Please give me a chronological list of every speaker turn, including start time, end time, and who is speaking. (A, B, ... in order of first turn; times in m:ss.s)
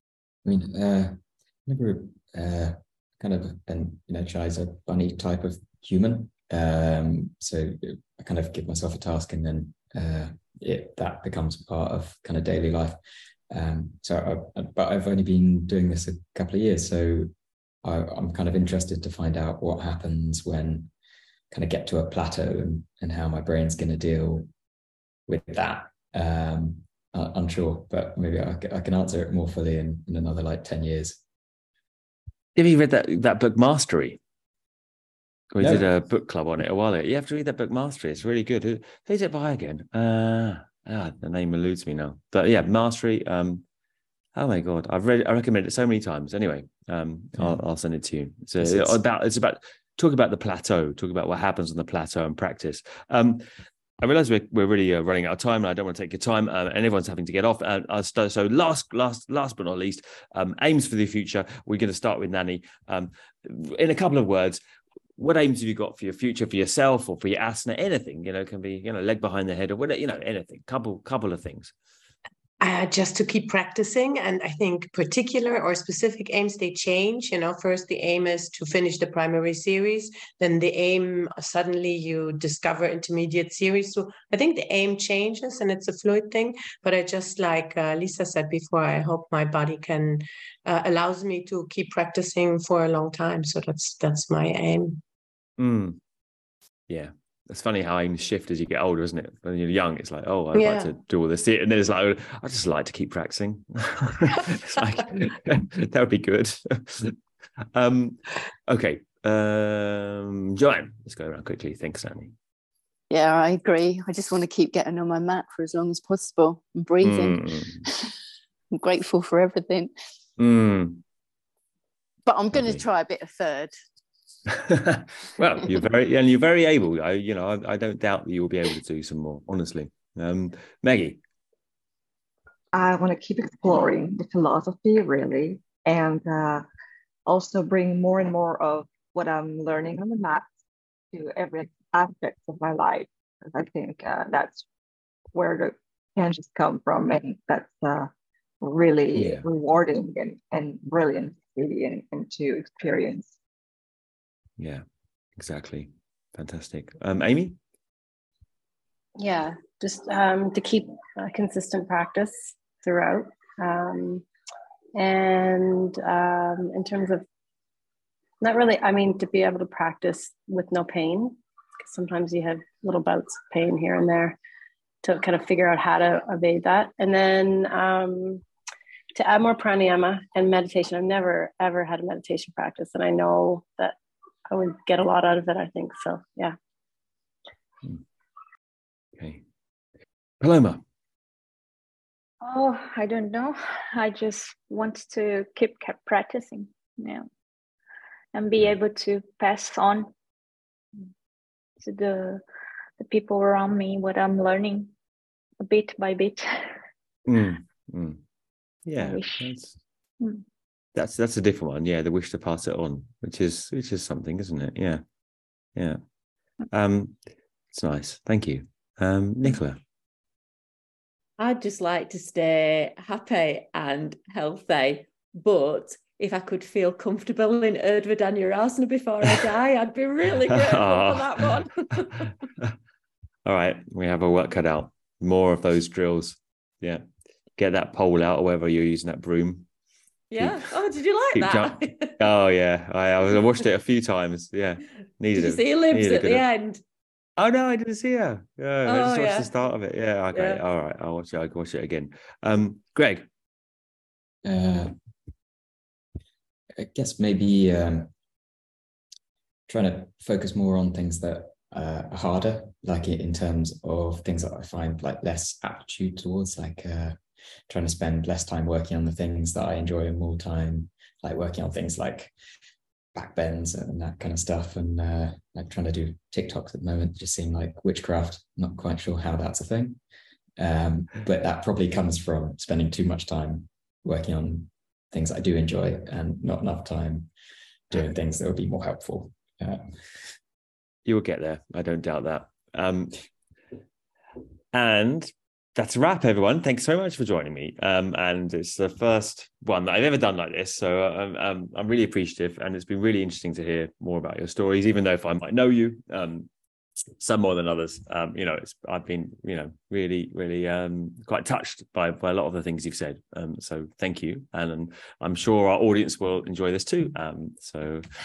0:00.4-0:13.0 A
0:13.5-0:17.3 A
0:17.8-0:20.9 A
0:21.5-0:24.5 A
0:25.3-0:31.2 A
0:32.6-0:34.2 B
0:35.5-0:43.6 B
0:35.6-0:35.8 A
0:44.3-0:53.4 B
0:48.6-0:49.0 A
0:54.0-1:04.6 B
1:05.2-1:11.7 B
1:12.6-1:35.0 C
1:35.6-1:36.0 B
1:36.9-1:47.2 B
1:40.5-1:40.9 C
1:47.7-1:52.3 B
1:53.1-1:58.1 D
1:57.0-1:57.8 B
1:58.7-1:59.9 D
2:00.4-2:01.0 B
2:02.2-2:03.7 D
2:02.5-2:02.8 B
2:04.5-2:11.2 B
2:12.7-2:16.6 E
2:17.3-2:20.5 E
2:21.1-2:24.6 E
2:25.3-2:33.4 E
2:29.1-2:29.4 B
2:35.4-2:37.6 B
2:39.2-2:44.2 F
2:44.9-2:47.2 F
2:48.4-2:54.4 F
2:55.0-2:58.4 F
2:59.1-3:04.0 F
3:04.5-3:06.6 F
3:09.2-3:09.4 B
3:10.4-3:10.8 B
3:12.4-3:17.2 G
3:18.3-3:20.1 G
3:21.8-3:22.4 G
3:23.0-3:24.9 G
3:25.6-3:26.8 G
3:27.3-3:28.2 B
3:28.8-3:29.8 B
3:29.0-3:29.5 G
3:30.9-3:35.0 B
3:36.7-3:37.2 B
3:37.7-3:39.8 B
3:41.4-3:52.3 H
3:50.5-3:51.5 B
3:53.4-3:57.0 B
3:57.6-3:59.7 B
4:00.3-4:02.2 H
4:00.4-4:00.6 B
4:01.3-4:06.4 B
4:05.3-4:06.8 H
4:07.4-4:13.2 B
4:08.8-4:09.5 H
4:10.3-4:10.6 H
4:14.4-4:14.9 A
4:16.8-4:18.1 A
4:19.7-4:27.2 A
4:27.7-4:32.3 A
4:33.1-4:40.0 A
4:40.6-4:47.3 A
4:47.9-4:49.9 A
4:51.0-4:53.2 B
4:54.7-5:06.5 B
5:07.2-5:18.1 B